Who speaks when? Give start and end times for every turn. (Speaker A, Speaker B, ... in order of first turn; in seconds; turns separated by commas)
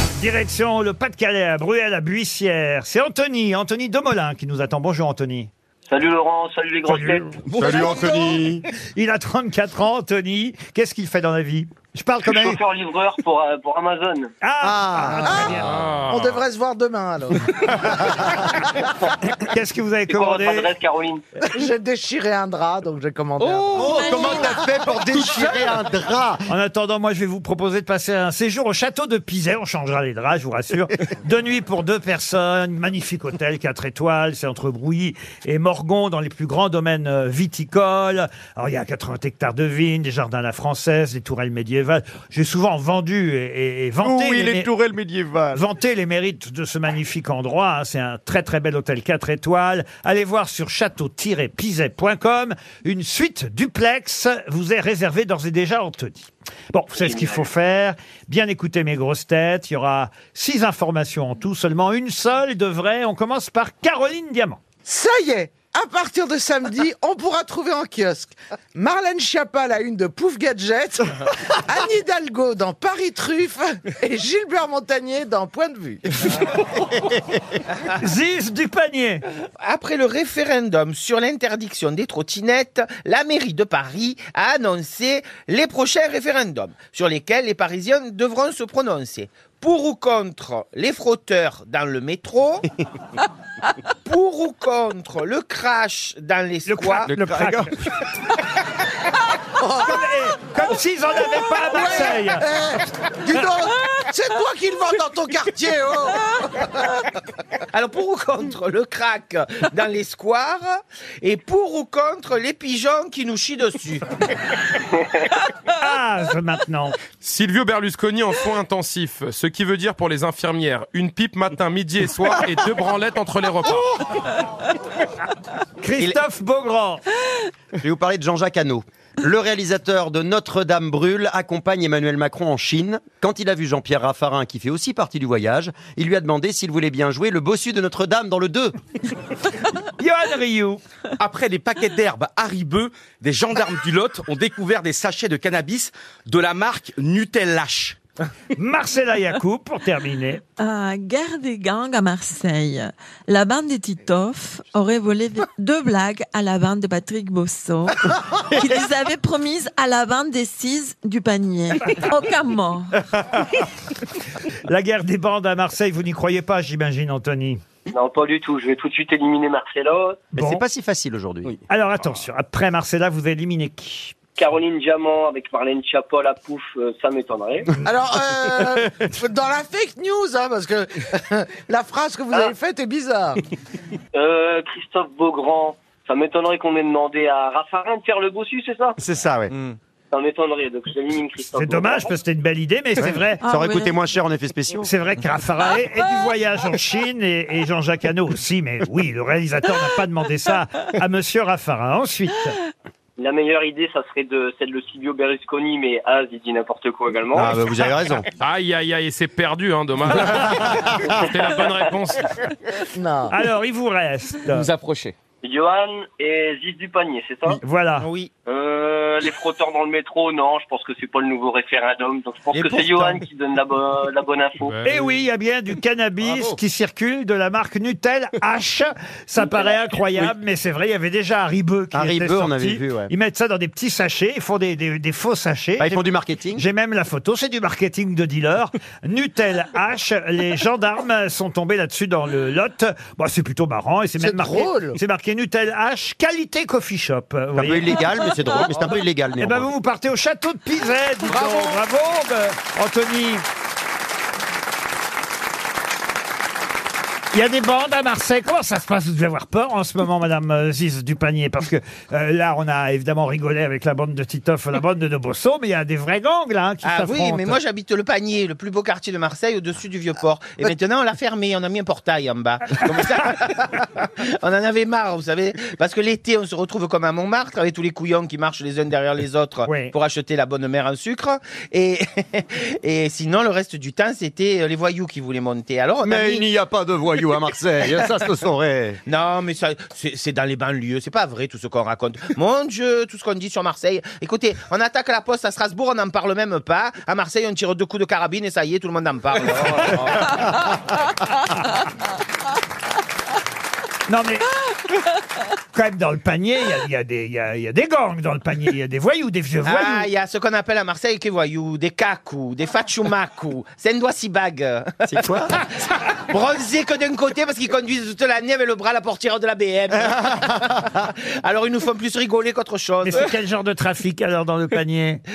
Speaker A: 0.1-5.5, Speaker B: 5.9-7.7, Speaker A: 6.8-7.3, Speaker C: 7.5-8.4, Speaker D: 7.6-8.5, Speaker A: 8.8-12.6, Speaker B: 12.2-14.3, Speaker A: 14.4-15.8, Speaker D: 14.6-15.2, Speaker C: 15.0-18.4, Speaker E: 15.6-16.4, Speaker A: 19.3-20.7, Speaker B: 20.1-21.2, Speaker C: 21.4-25.4, Speaker D: 23.7-26.4, Speaker F: 23.9-24.6, Speaker A: 26.5-44.8, Speaker A: 45.5-64.6, Speaker B: 56.9-57.5, Speaker C: 64.8-76.2, Speaker A: 77.9-79.2, Speaker G: 79.6-92.7, Speaker G: 94.0-97.1, Speaker A: 96.7-97.7, Speaker C: 99.6-100.0, Speaker A: 99.8-102.5, Speaker C: 101.7-106.8, Speaker G: 107.7-114.1, Speaker A: 115.7-117.0, Speaker E: 117.2-124.0, Speaker A: 125.8-127.0, Speaker D: 127.8-138.8, Speaker A: 140.0-140.8, Speaker H: 141.2-148.0, Speaker A: 148.6-150.4, Speaker F: 150.6-163.0, Speaker A: 164.7-167.6, Speaker B: 167.9-170.3, Speaker D: 170.3-171.6, Speaker A: 170.3-170.6, Speaker A: 171.7-174.2, Speaker B: 174.4-177.7, Speaker C: 177.8-183.4, Speaker B: 184.1-189.0, Speaker D: 189.0-189.5, Speaker G: 189.5-189.8, Speaker B: 190.1-192.1, Speaker A: 191.5-193.4, Speaker D: 193.0-194.9, Speaker F: 193.4-193.9, Speaker A: 194.8-202.6, Speaker B: 203.2-207.5, Speaker D: 207.3-208.2, Speaker E: 208.4-212.5, Speaker C: 212.9-213.3, Speaker A: 213.3-214.7, Speaker H: 214.5-215.1, Speaker B: 215.4-217.6, Speaker A: 217.6-218.1, Speaker G: 218.0-218.3, Speaker B: 218.4-224.8, Speaker E: 224.6-225.2, Speaker A: 224.8-248.3, Speaker D: 231.9-233.1, Speaker D: 235.8-236.6, Speaker C: 244.2-245.0, Speaker D: 247.6-249.7, Speaker A: 249.4-253.4, Speaker H: 251.3-251.8, Speaker A: 257.3-267.6, Speaker G: 266.8-286.5, Speaker A: 279.6-279.9, Speaker D: 286.0-289.0, Speaker G: 289.1-300.5, Speaker A: 304.1-304.5, Speaker A: 305.7-310.1, Speaker G: 309.6-315.6, Speaker D: 315.1-315.5, Speaker G: 316.2-323.3, Speaker A: 323.0-325.2